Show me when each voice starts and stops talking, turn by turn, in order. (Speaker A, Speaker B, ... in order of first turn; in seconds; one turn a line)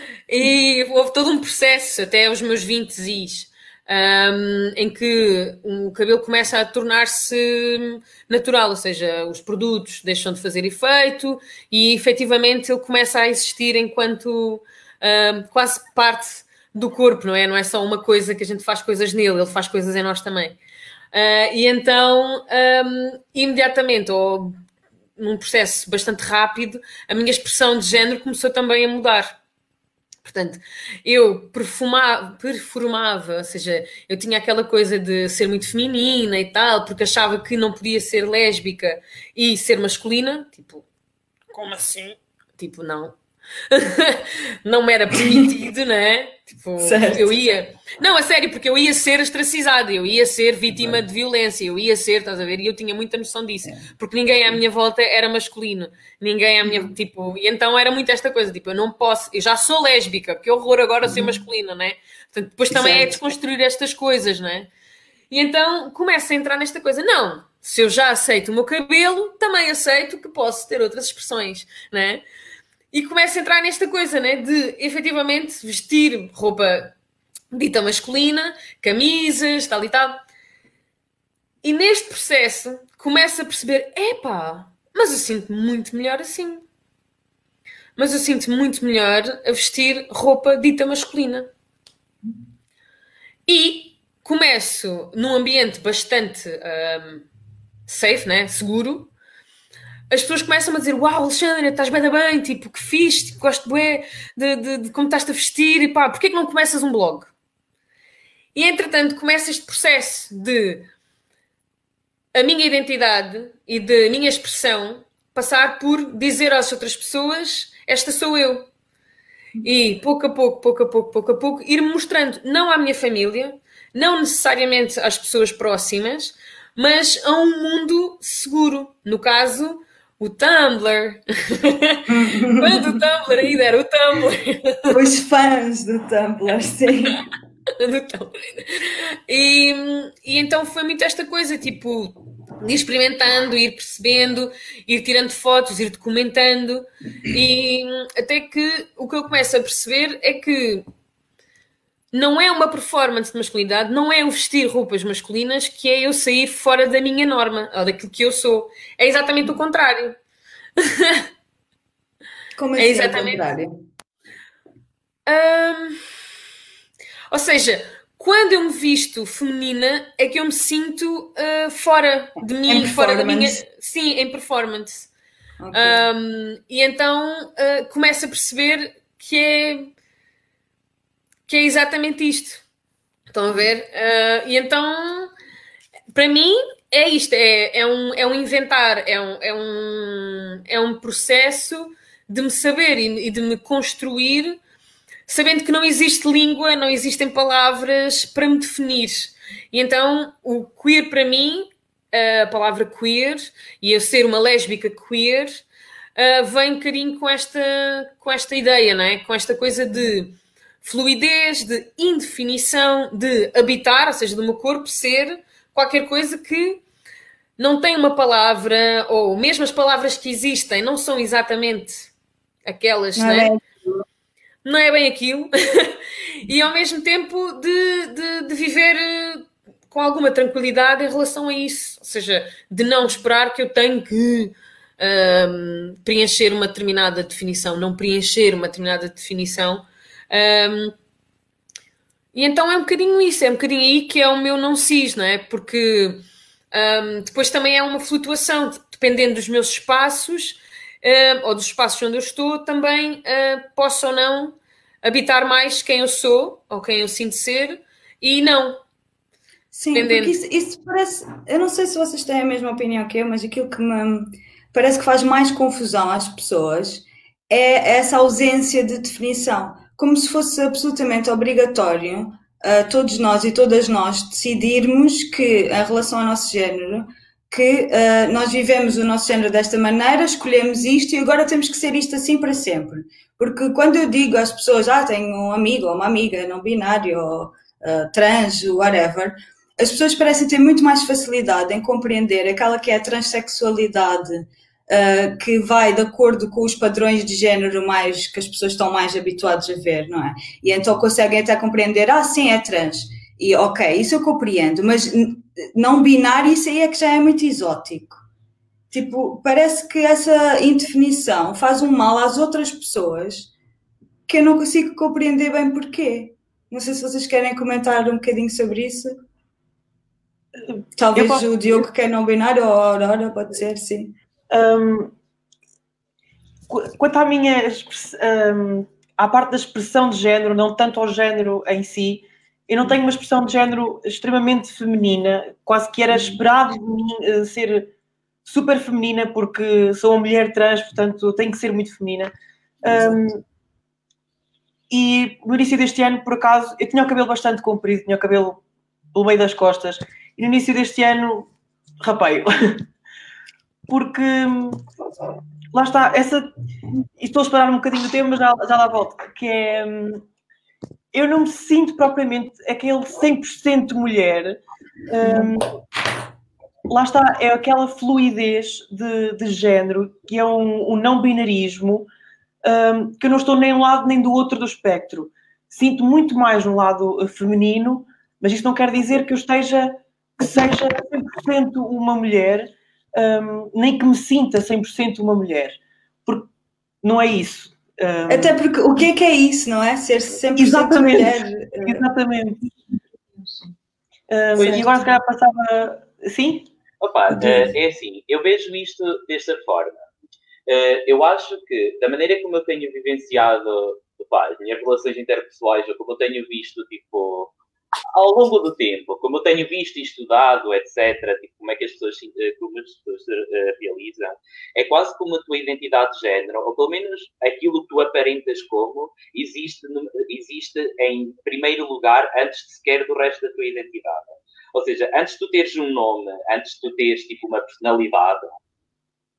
Speaker A: 0.3-20.6
Speaker A: 21.1-24.6
Speaker A: 25.2-29.4
Speaker A: 30.2-40.9
Speaker A: 41.5-43.2
Speaker A: 43.7-64.7
Speaker B: 46.8-47.3
Speaker B: 56.6-56.9
Speaker B: 61.1-61.4
Speaker B: 62.7-63.3
Speaker A: 65.3-72.2
Speaker A: 72.9-77.0
Speaker A: 77.5-80.2
Speaker A: 81.6-86.6
Speaker A: 88.0-91.5
Speaker A: 93.5-97.3
Speaker A: 97.9-99.1
Speaker A: 100.1-107.3
Speaker A: 108.5-110.9
Speaker A: 112.3-118.7
Speaker A: 119.6-134.9
Speaker B: 132.1-133.0
Speaker B: 134.9-137.2
Speaker A: 137.8-150.9
Speaker A: 152.1-160.2
Speaker A: 160.8-161.2
Speaker B: 162.6-163.7
Speaker A: 162.8-163.5
Speaker A: 165.3-166.0
Speaker A: 167.3-175.1
Speaker B: 172.7-173.6
Speaker B: 175.6-176.1
Speaker A: 175.7-179.9
Speaker A: 181.5-182.6
Speaker A: 183.3-185.3
Speaker A: 186.1-194.6
Speaker A: 195.3-205.6
Speaker A: 206.2-216.8
Speaker A: 217.6-222.1
Speaker A: 222.7-223.5
Speaker B: 223.2-224.0
Speaker A: 224.7-241.0
Speaker A: 242.3-258.8
Speaker B: 259.7-308.2
Speaker A: 259.9-260.4
Speaker B: 308.9-313.5
Speaker B: 314.3-319.1
Speaker C: 320.6-321.8
Speaker B: 321.0-324.1
Speaker C: 324.5-325.1
Speaker C: 326.7-337.9
Speaker B: 336.1-336.4
Speaker C: 338.4-342.3
Speaker C: 342.8-343.4
Speaker B: 342.9-343.2
Speaker C: 344.9-348.6
Speaker C: 349.1-351.5
Speaker C: 352.0-352.9
Speaker C: 353.9-354.8
Speaker C: 355.7-356.5
Speaker C: 357.2-360.2
Speaker C: 361.1-365.7
Speaker C: 366.9-372.1
Speaker C: 372.6-386.5
Speaker C: 387.0-388.6
Speaker B: 388.3-392.0
Speaker C: 390.6-392.7
Speaker C: 394.3-396.7
Speaker D: 394.6-394.9
Speaker B: 394.6-395.1
Speaker D: 397.0-400.0
Speaker B: 397.3-397.7
Speaker D: 400.7-407.5
Speaker D: 408.1-428.5